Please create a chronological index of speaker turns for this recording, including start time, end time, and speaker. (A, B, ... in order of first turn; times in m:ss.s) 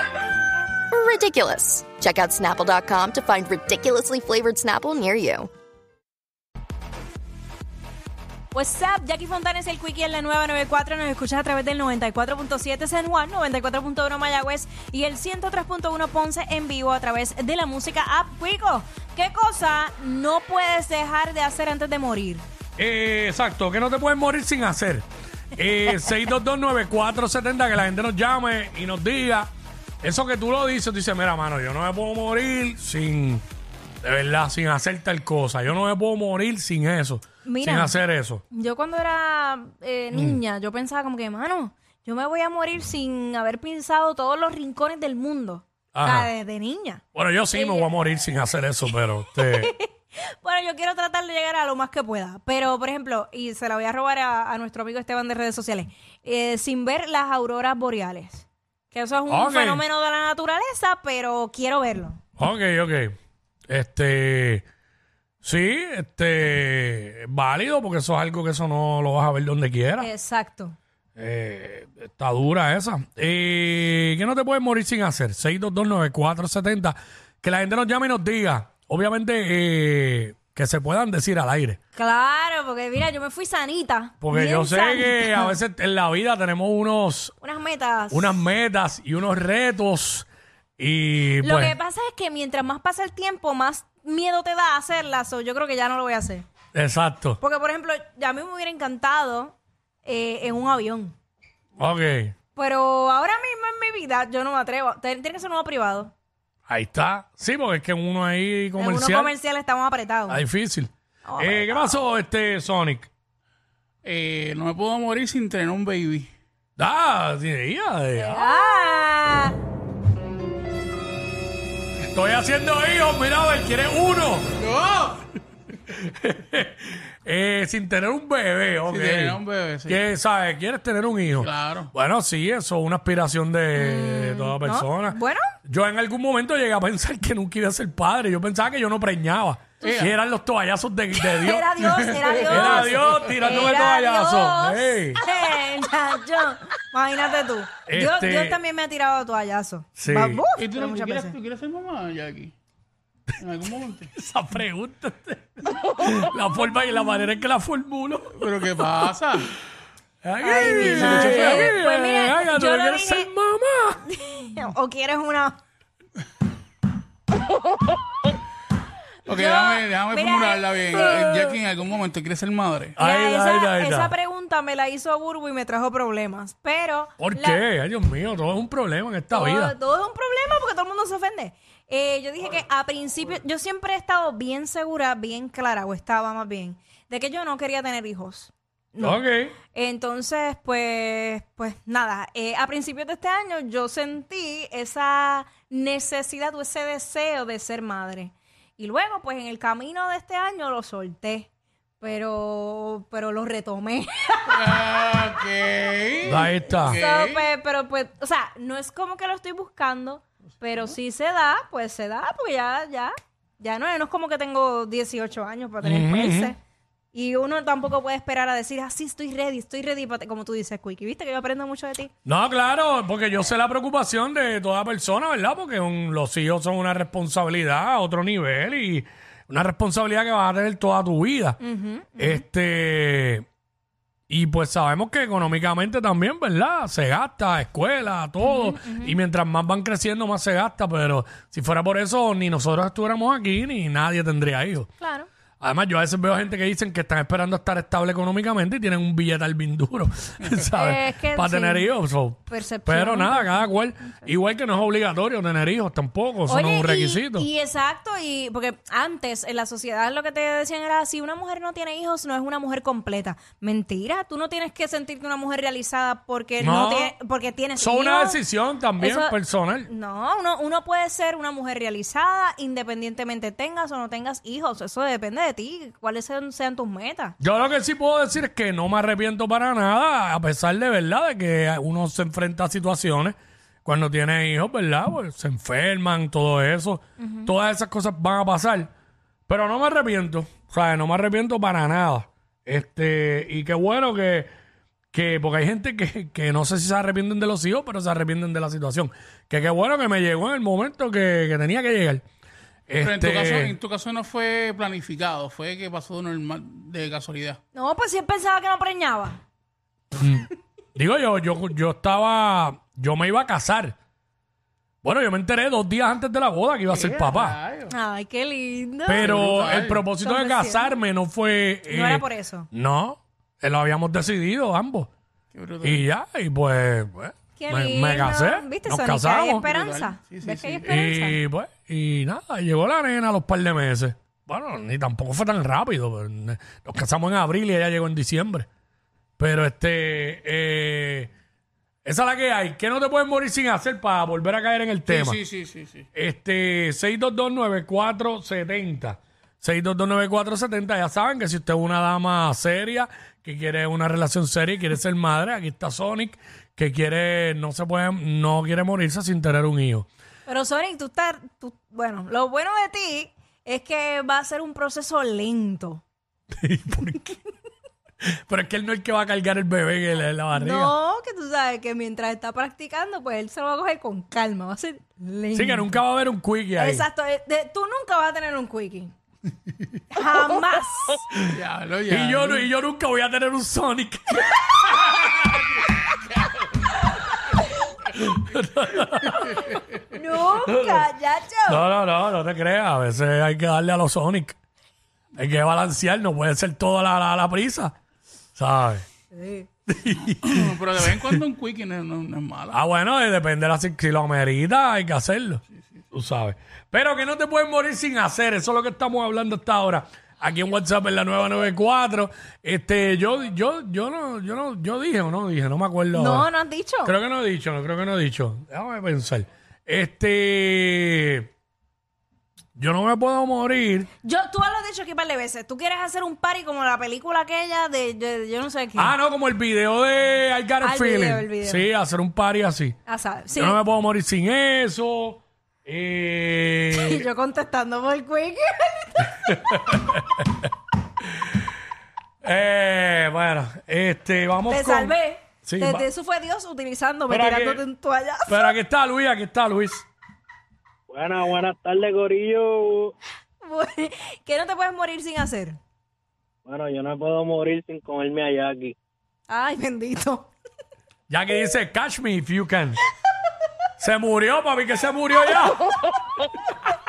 0:00.9-0:05.5 A
0:08.5-0:22.4 B
0:22.8-0:29.5 C
0:30.0-0:33.4 C
0:34.0-0:38.4 C
0:37.4-0:38.0 B
0:38.5-0:47.0 B
0:40.1-0:40.4 C
0:45.9-0:46.3 C
0:47.1-0:49.7 C
0:47.5-0:47.9 B
0:49.4-1:02.2 B
0:59.3-0:59.8 C
1:02.4-1:03.1 C
1:03.7-1:04.6 C
1:05.4-1:10.1 C
1:10.0-1:10.8 B
1:11.2-1:21.8 C
1:22.0-1:25.6 B
1:24.2-1:27.3 C
1:27.4-1:28.4 B
1:28.1-1:30.3 C
1:30.8-1:31.8 C
1:31.4-1:36.4 B
1:36.7-1:37.4 C
1:37.4-1:41.1 B
1:41.8-1:42.3 C
1:42.6-1:46.1 B
1:46.7-1:49.3 C
1:48.8-1:50.4 B
1:50.3-1:53.1 C
1:51.2-1:52.0 B
1:54.0-1:56.3 D
1:56.8-1:58.6 C
1:58.2-1:59.5 B
2:02.1-2:04.5 C
2:04.6-2:05.3 D
2:05.9-2:21.7 C
2:08.9-2:10.0 D
2:11.4-2:11.9 D
2:13.8-2:15.4 B
2:19.8-2:20.1 D
2:21.1-2:31.4 B
2:21.9-2:23.3 D
2:22.4-2:25.2 C
2:27.9-2:28.6 C
2:30.0-2:30.4 C
2:30.6-2:32.5 D
2:33.4-2:34.1 D
2:34.1-2:38.4 C
2:38.3-2:39.5 D
2:40.2-2:44.0 C
2:40.4-2:43.3 B
2:40.7-2:41.6 D
2:44.1-2:45.6 B
2:49.3-2:53.0 D
2:49.3-2:51.5 B
2:53.0-2:54.1 C
2:53.0-2:57.6 B
2:57.2-2:59.8 C
2:59.3-3:21.5 B
3:09.0-3:09.6 C
3:22.0-3:24.6 B
3:24.5-3:27.5 D
3:26.2-3:27.0 C
3:26.9-3:36.6 B
3:35.8-3:36.5 C
3:37.1-3:42.1 B
3:42.3-3:51.6 C
3:51.6-3:52.4 B
3:52.2-3:53.4 C
3:54.3-4:04.9 C
3:58.4-3:59.2 B
4:05.0-4:05.3 B
4:05.6-4:17.5 C
4:10.7-4:11.9 B
4:12.5-4:13.7 B
4:16.5-4:28.4 B
4:26.6-4:27.1 C
4:27.8-4:29.9 C
4:29.0-4:29.4 B
4:29.9-4:37.4 B
4:37.4-4:48.9 C
4:47.2-4:47.5 B
4:49.5-4:54.5 C
4:55.1-5:02.2 C
5:02.9-5:03.8 C
5:03.0-5:07.6 D
5:07.7-5:09.4 B
5:10.2-5:14.0 C
5:15.0-5:17.6 C
5:16.9-5:17.9 D
5:17.9-5:19.4 B
5:19.1-5:25.1 C
5:19.2-5:20.0 D
5:20.2-5:21.0 B
5:21.9-5:22.7 B
5:25.5-5:26.0 D
5:25.8-5:29.7 C
5:27.6-5:31.4 B
5:29.6-5:30.9 D
5:30.9-5:38.7 C
5:39.4-5:41.3 C
5:42.0-5:45.4 C
5:45.1-5:46.1 D
5:46.1-6:00.1 C
6:00.5-6:06.0 B
6:06.5-6:07.4 C
6:08.3-6:11.0 C
6:10.5-6:16.0 B
6:15.5-6:17.1 C
6:16.8-6:19.1 B
6:20.1-6:21.2 B
6:21.5-6:22.7 D
6:22.1-6:25.6 C
6:28.1-6:29.7 C
6:30.1-6:31.9 B
6:30.4-6:31.1 C
6:31.7-6:34.6 C
6:35.4-6:37.9 C
6:38.6-6:39.0 C
6:39.3-6:39.7 B
6:39.9-6:41.4 C
6:40.2-6:42.8 D
6:42.7-6:56.5 C
6:56.1-6:57.1 B
6:57.0-7:01.5 C
7:02.8-7:04.1 C
7:04.2-7:09.1 B
7:09.0-7:13.0 C
7:10.8-7:11.9 B
7:13.1-7:13.8 B
7:13.6-7:17.3 C
7:16.9-7:19.2 B
7:19.4-7:20.7 C
7:22.4-7:26.1 C
7:24.7-7:28.6 B
7:27.3-7:27.8 C
7:28.5-7:30.1 C
7:31.1-7:33.1 E
7:33.6-7:35.8 B
7:36.7-7:39.0 E
7:39.5-7:40.5 B
7:41.3-7:43.0 C
7:44.0-7:45.9 C